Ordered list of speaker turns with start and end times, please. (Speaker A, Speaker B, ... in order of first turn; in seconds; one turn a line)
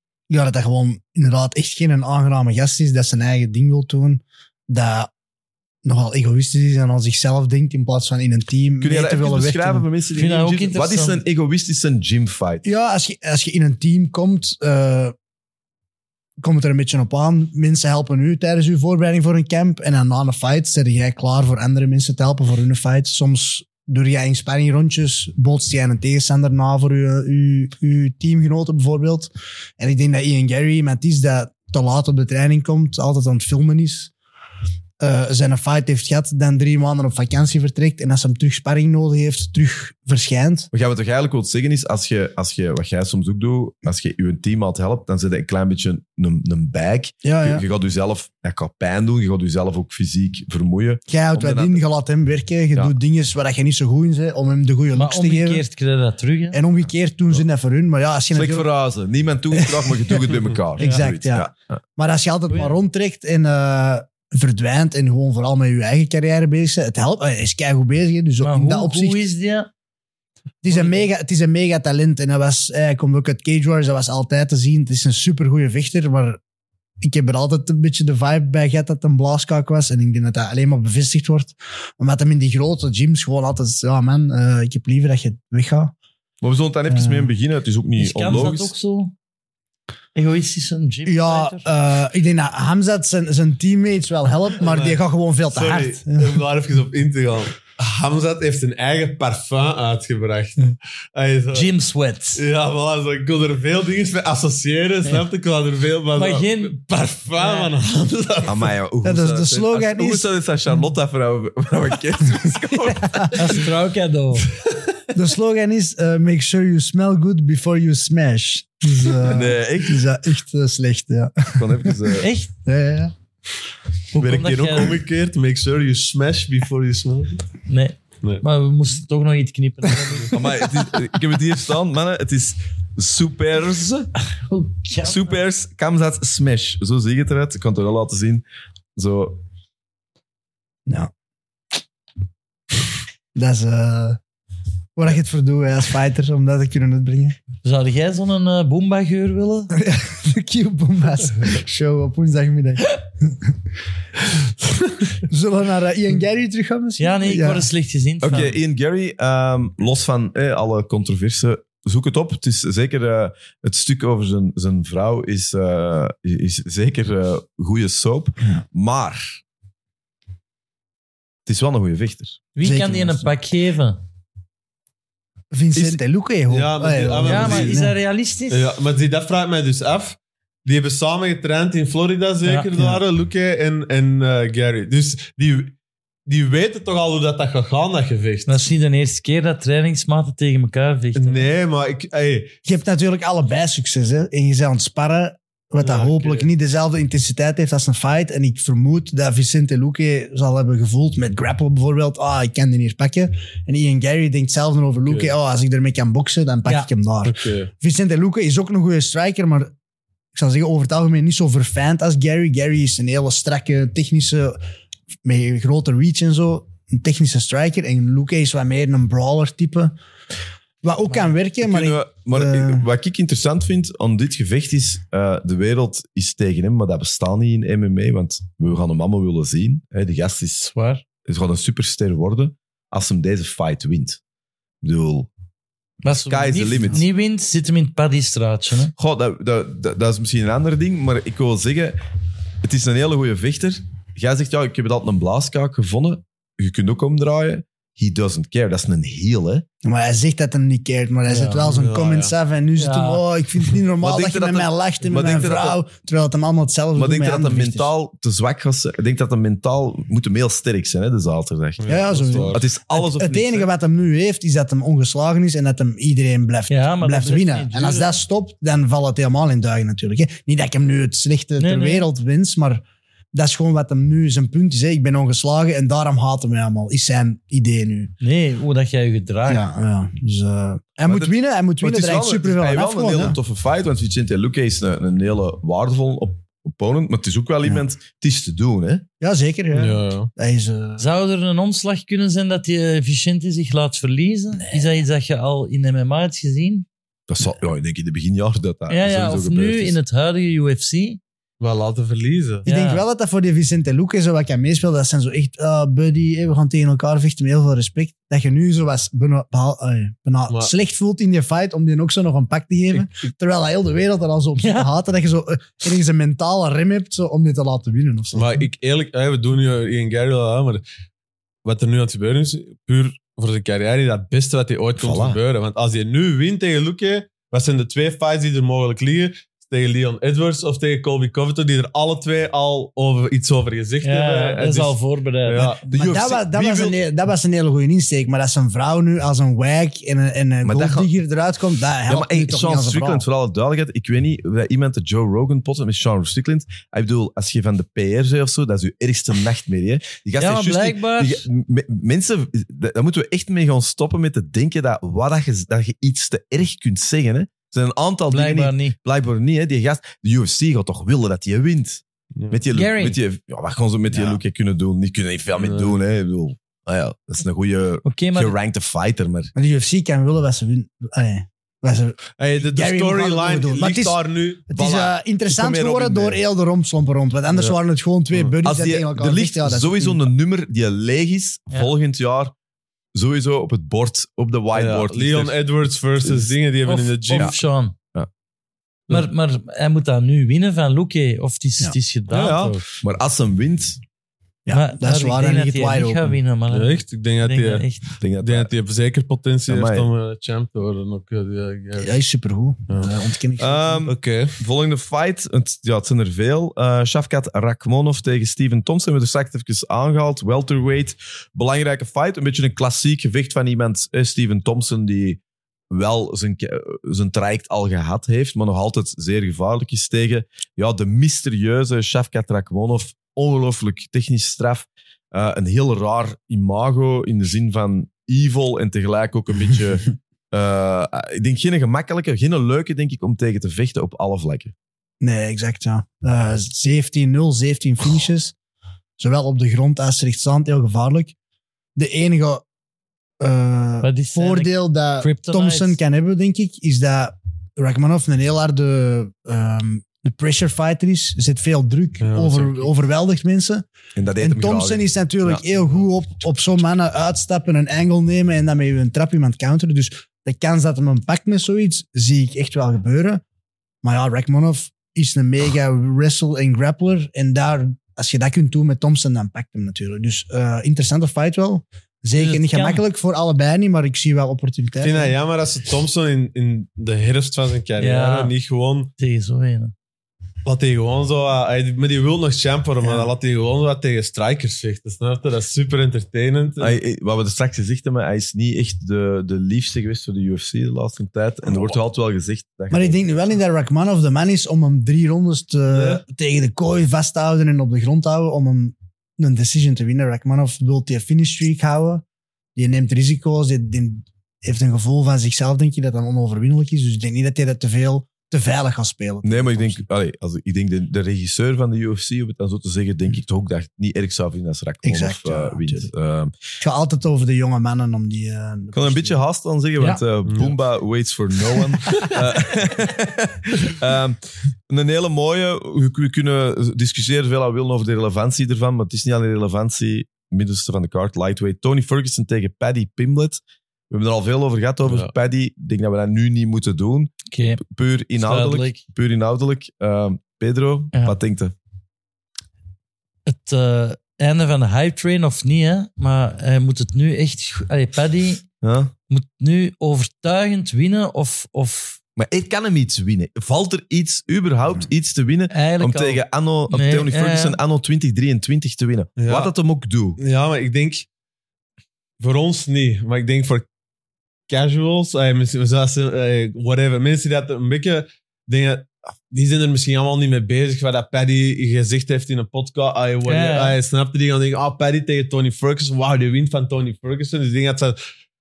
Speaker A: 0.3-5.1
Speaker A: 5.8-9.8
Speaker B: 8.8-12.6
Speaker C: 10.1-11.2
Speaker A: 12.6-15.1
Speaker A: 16.4-34.1
Speaker A: 35.0-40.7
Speaker B: 40.7-51.8
Speaker A: 47.2-47.6
Speaker A: 51.1-55.6
Speaker C: 54.9-56.6
Speaker A: 56.5-58.7
Speaker B: 58.3-61.7
Speaker A: 59.5-69.2
Speaker C: 62.5-62.7
Speaker C: 68.4-69.7
Speaker A: 70.6-76.4
Speaker C: 70.7-71.0
Speaker A: 77.0-85.9
Speaker B: 86.4-88.7
Speaker A: 86.9-87.3
Speaker C: 88.0-89.1
Speaker C: 90.1-91.7
Speaker A: 91.0-96.4
Speaker D: 94.6-95.0
Speaker D: 95.5-101.7
Speaker C: 101.5-102.4
Speaker D: 102.3-108.7
Speaker C: 106.1-106.8
Speaker C: 107.4-107.7
Speaker B: 108.5-113.6
Speaker A: 109.0-110.3
Speaker A: 112.8-113.4
Speaker C: 113.3-114.5
Speaker A: 115.1-123.1
Speaker B: 119.2-120.0
Speaker B: 121.5-122.3
Speaker C: 122.2-122.5
Speaker C: 124.1-125.0
Speaker D: 124.2-127.4
Speaker C: 127.7-130.4
Speaker B: 130.3-134.1
Speaker C: 134.4-135.3
Speaker B: 135.0-138.4
Speaker B: 138.9-139.4
Speaker A: 143.3-144.2
Speaker A: 144.9-147.4
Speaker C: 147.6-149.7
Speaker A: 149.7-153.5
Speaker A: 155.2-157.7
Speaker C: 157.0-158.6
Speaker B: 158.2-169.4
Speaker B: 171.4-172.4
Speaker C: 172.5-174.0
Speaker A: 172.6-173.3
Speaker A: 175.5-177.9
Speaker B: 175.7-176.0
Speaker D: 176.5-177.8
Speaker C: 177.2-178.7
Speaker D: 178.5-185.7
Speaker C: 182.4-182.9
Speaker D: 186.3-188.7
Speaker C: 188.5-191.5
Speaker D: 191.2-192.5
Speaker A: 192.7-209.7
Speaker D: 195.8-196.5
Speaker D: 205.0-205.3
Speaker D: 207.2-207.7
Speaker A: 210.3-214.6
Speaker A: 215.2-219.9
Speaker A: 220.8-222.8
Speaker B: 221.6-230.7
Speaker C: 230.6-231.0
Speaker B: 231.2-234.2
Speaker B: 234.8-235.3
Speaker C: 236.0-238.9
Speaker B: 236.1-237.1
Speaker B: 239.0-242.0
Speaker B: 242.6-249.6
Speaker A: 249.8-257.9
Speaker C: 251.3-251.7
Speaker D: 251.6-252.3
Speaker C: 252.8-253.2
Speaker B: 254.0-255.8
Speaker B: 256.9-263.7
Speaker D: 261.8-262.6
Speaker A: 261.9-278.1
Speaker C: 266.7-268.1
Speaker C: 271.6-272.1
Speaker C: 278.2-279.6
Speaker A: 279.5-283.4
Speaker B: 281.1-289.0
Speaker A: 289.2-291.0
Speaker D: 289.7-290.3
Speaker C: 291.0-296.9
Speaker A: 294.6-295.0
Speaker B: 297.3-300.0
Speaker C: 298.9-301.2
Speaker D: 301.6-302.7
Speaker C: 302.6-303.0
Speaker A: 302.6-318.6
Speaker D: 312.9-313.3
Speaker C: 314.6-314.9
Speaker D: 318.3-320.8
Speaker D: 321.6-335.8
Speaker B: 324.9-325.4
Speaker C: 334.0-335.7
Speaker A: 335.8-343.2
Speaker B: 335.9-337.0
Speaker B: 340.6-341.1
Speaker B: 342.1-369.5
Speaker C: 350.4-351.4
Speaker C: 358.3-358.9
Speaker C: 362.7-363.2
Speaker D: 365.6-365.9
Speaker C: 368.0-368.5
Speaker A: 369.5-380.2
Speaker D: 372.4-374.6
Speaker B: 374.7-376.4
Speaker B: 378.6-382.5
Speaker B: 383.1-385.6
Speaker D: 384.7-387.5
Speaker B: 386.2-386.5
Speaker C: 386.9-387.9
Speaker C: 389.1-392.9
Speaker B: 392.3-394.0
Speaker A: 394.6-396.4
Speaker C: 394.7-398.0
Speaker D: 396.7-397.9
Speaker B: 398.2-398.7
Speaker D: 398.4-402.2
Speaker B: 399.7-400.1
Speaker A: 402.0-404.0
Speaker D: 402.9-403.1
Speaker B: 403.6-434.7
Speaker D: 404.1-404.5
Speaker A: 435.2-438.5
Speaker A: 439.2-441.3
Speaker A: 441.9-442.6
Speaker A: 443.4-453.8
Speaker C: 444.0-446.0
Speaker D: 452.2-452.9
Speaker B: 454.1-455.6
Speaker A: 454.4-463.4
Speaker A: 464.0-475.3
Speaker C: 472.3-473.0
Speaker D: 475.0-479.1
Speaker C: 478.0-478.5
Speaker C: 479.2-479.9
Speaker D: 480.6-486.9
Speaker A: 483.0-483.3
Speaker B: 486.8-493.2
Speaker A: 492.9-502.2
Speaker D: 495.9-496.2
Speaker A: 502.8-510.0
Speaker B: 509.4-516.5
Speaker A: 515.0-516.1
Speaker A: 516.8-519.4
Speaker B: 518.9-541.7
Speaker D: 520.5-520.7
Speaker D: 535.0-535.3
Speaker C: 537.5-537.8
Speaker C: 538.4-539.0
Speaker C: 543.5-548.6
Speaker B: 548.8-549.1
Speaker C: 549.3-552.2
Speaker B: 552.4-560.4
Speaker C: 555.7-557.8
Speaker D: 559.4-559.7
Speaker D: 560.4-561.3
Speaker D: 562.4-563.9
Speaker D: 564.7-578.2
Speaker C: 573.5-574.0